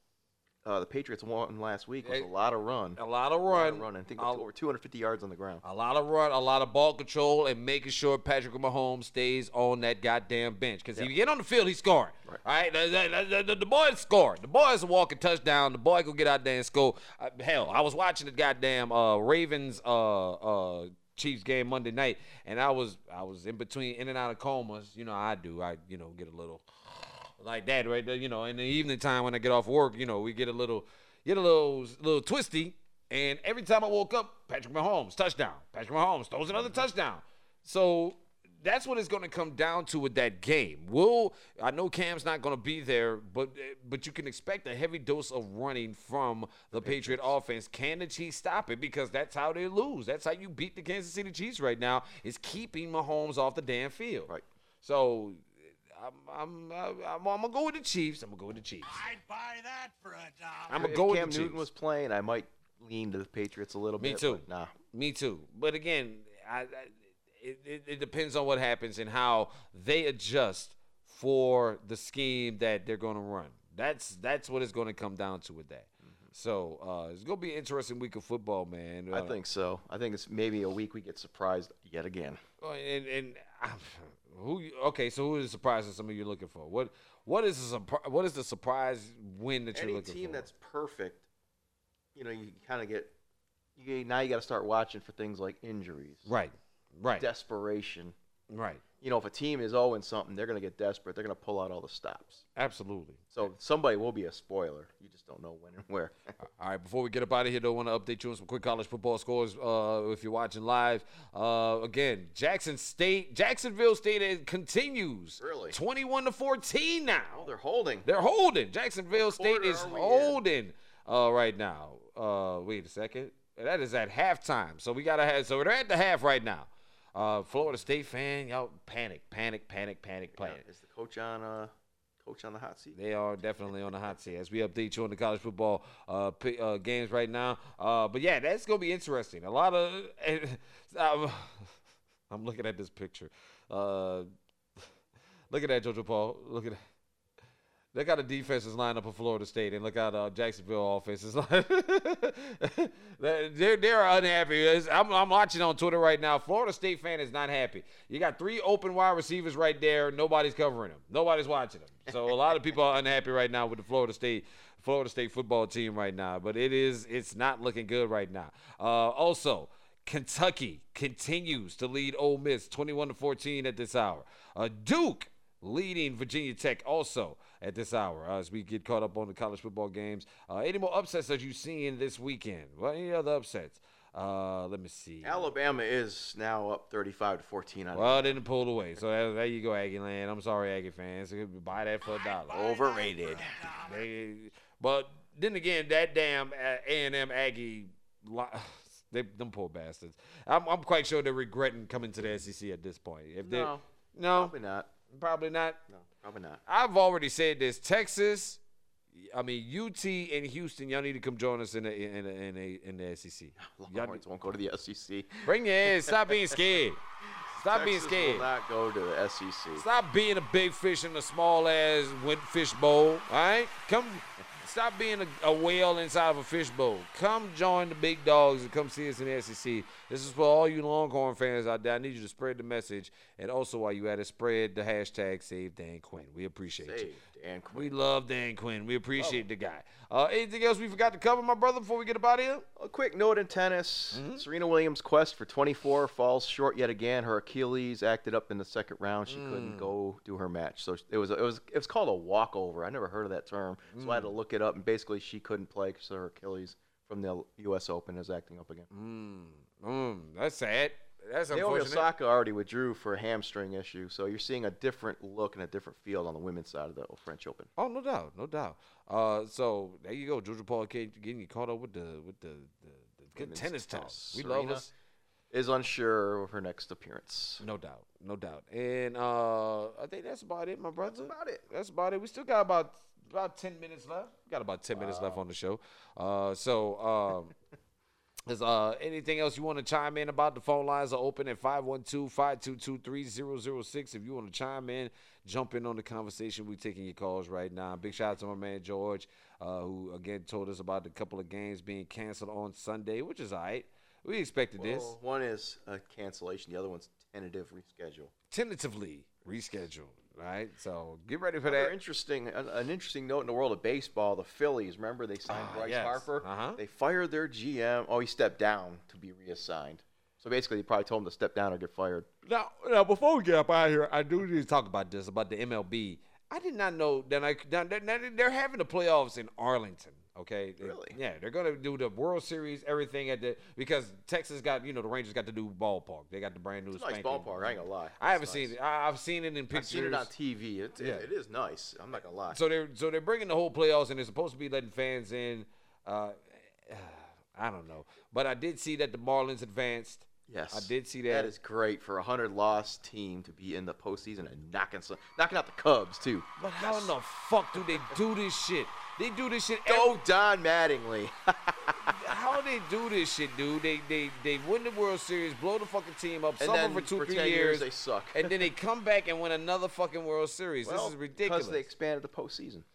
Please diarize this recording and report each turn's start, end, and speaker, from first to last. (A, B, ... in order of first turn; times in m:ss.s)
0:00.6-0:05.6 A
0:02.0-0:02.3 B
0:03.0-0:04.4 B
0:05.6-0:59.0 B
0:46.8-0:47.4 A
0:58.8-1:00.9 C
1:00.7-1:01.6 B
1:00.8-1:04.7 A
1:04.0-1:19.4 B
1:19.1-1:22.4 A
1:22.6-1:30.5 B
1:29.7-1:31.2 A
1:32.1-1:33.1 A
1:33.8-1:36.3 A
1:36.2-1:37.3 B
1:37.2-1:38.1 A
1:38.5-1:38.8 B
1:39.0-1:42.4 A
1:42.6-1:43.2 B
1:43.3-1:46.1 A
1:46.6-1:57.5 B
1:55.4-1:55.8 A
1:57.3-1:58.1 A
1:58.0-2:10.6 B
1:59.1-2:00.4 A
2:10.3-2:13.0 A
2:12.9-2:21.7 B
2:22.3-2:24.3 B
2:25.5-2:26.8 B
2:27.9-3:05.5 B
3:05.2-3:08.4 A
3:07.9-3:12.6 B
3:12.0-3:14.1 C
3:12.5-3:13.7 A
3:13.8-3:24.5 B
3:23.4-3:24.9 A
3:25.1-3:25.8 B
3:25.9-3:26.6 A
3:26.7-3:28.6 B
3:29.1-3:34.2 B
3:33.6-3:36.6 A
3:35.4-3:37.0 B
3:37.5-3:38.5 B
3:37.6-3:39.8 A
3:39.8-3:57.1 B
3:56.8-3:57.9 A
3:57.7-4:02.6 B
3:59.2-3:59.4 A
4:02.8-4:18.9 A
4:04.1-4:04.4 B
4:09.3-4:09.9 B
4:13.9-4:14.3 B
4:18.9-4:22.1 B
4:21.5-4:27.7 A
4:27.8-4:34.9 B
4:33.4-4:34.9 A
4:35.5-4:37.6 A
4:37.6-4:47.5 B
4:41.0-4:41.7 A
4:44.9-4:45.4 A
4:48.5-5:05.2 B
5:04.8-5:08.3 A
5:08.5-5:11.9 B
5:11.6-5:22.3 A
5:15.5-5:16.8 B
5:22.4-5:40.3 B
5:30.8-5:31.2 A
5:36.9-5:38.8 A
5:39.7-5:42.6 A
5:41.0-5:41.3 B
5:42.5-5:51.5 B
5:50.5-5:57.1 A
5:56.6-6:00.1 B
5:57.7-5:58.1 A
5:59.9-6:02.3 A
6:01.9-6:11.8 B
6:06.6-6:08.7 A
6:10.8-6:12.8 A